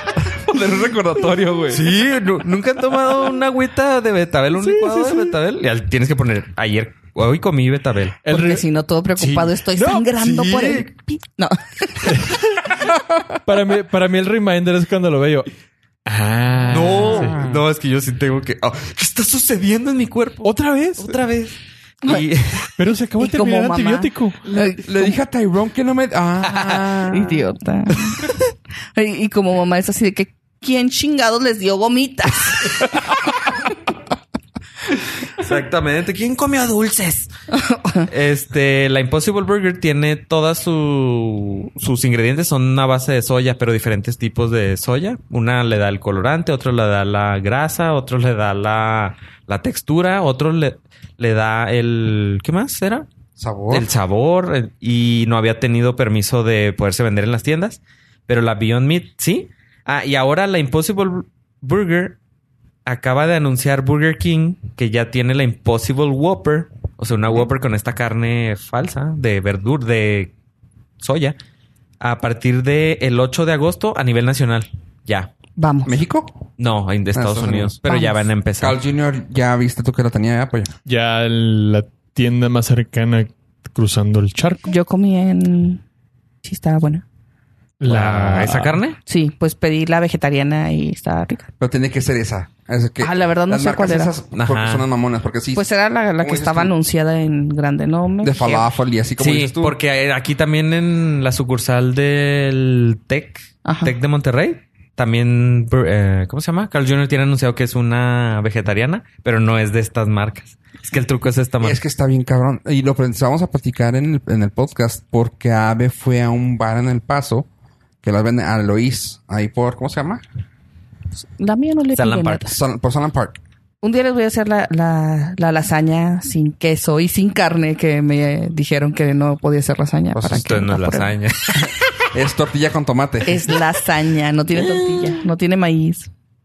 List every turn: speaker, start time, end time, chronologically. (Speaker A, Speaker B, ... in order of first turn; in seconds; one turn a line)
Speaker A: 0.2-1.9
Speaker B: 1.7-8.2
Speaker C: 4.6-5.3
Speaker C: 8.2-8.6
Speaker D: 8.3-12.3
Speaker B: 9.2-10.9
Speaker C: 12.1-12.9
Speaker C: 13.4-15.5
Speaker C: 16.1-17.4
Speaker B: 16.7-22.7
Speaker A: 17.0-17.6
Speaker C: 20.4-21.2
Speaker C: 22.8-24.4
Speaker D: 23.2-25.2
Speaker A: 24.8-27.3
Speaker B: 26.4-27.3
Speaker D: 27.1-28.3
Speaker D: 28.9-33.1
Speaker B: 35.3-37.3
Speaker D: 37.5-38.1
Speaker B: 38.1-53.1
Speaker A: 53.4-53.9
Speaker B: 53.7-62.2
Speaker B: 62.9-70.3
Speaker B: 71.0-71.4
Speaker B: 72.0-75.3
Speaker D: 75.6-76.0
Speaker A: 75.8-76.3
Speaker B: 76.6-78.8
Speaker A: 77.1-77.8
Speaker D: 77.9-78.2
Speaker A: 78.6-80.7
Speaker C: 80.8-84.7
Speaker D: 84.6-85.8
Speaker D: 86.4-87.0
Speaker C: 87.8-88.8
Speaker B: 87.8-89.0
Speaker D: 89.0-91.5
Speaker A: 91.6-95.6
Speaker D: 93.0-94.1
Speaker B: 94.3-94.8
Speaker D: 95.5-98.7
Speaker A: 96.2-96.7
Speaker A: 98.2-99.8
Speaker B: 99.2-111.8
Speaker D: 103.6-103.9
Speaker A: 111.6-117.5
Speaker A: 118.0-120.2
Speaker D: 121.4-122.6
Speaker B: 122.0-122.4
Speaker A: 122.4-123.4
Speaker D: 123.8-131.7
Speaker A: 130.1-130.5
Speaker B: 130.3-131.7
Speaker A: 132.1-133.4
Speaker D: 133.2-136.1